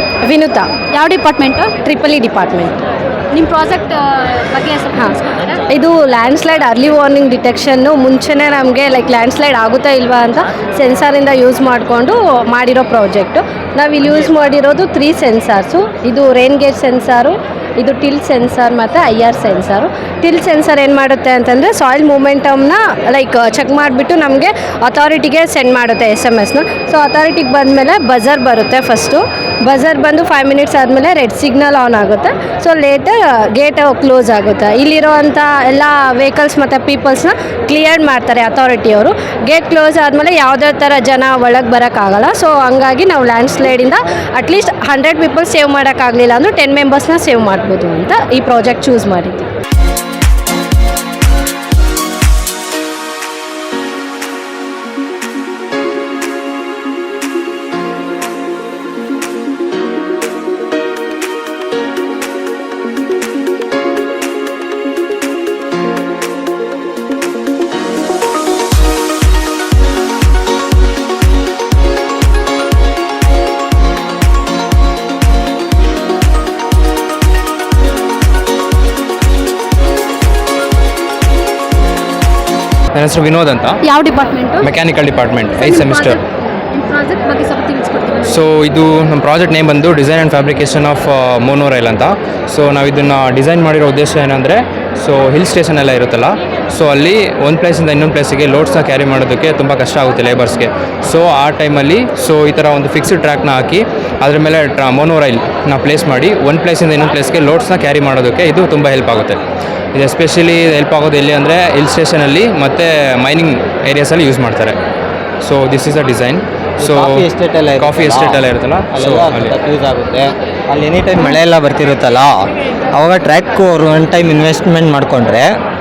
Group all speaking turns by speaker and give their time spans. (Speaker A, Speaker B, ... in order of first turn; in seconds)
Speaker A: 0.2-0.7, 1.8-2.8, 5.7-49.5
Speaker B: 0.9-1.8, 3.3-5.6, 83.8-84.7, 85.5-88.4
Speaker C: 82.9-83.8, 84.6-86.2, 88.2-109.4, 109.9-114.8, 115.4-119.6
Speaker D: 116.8-125.5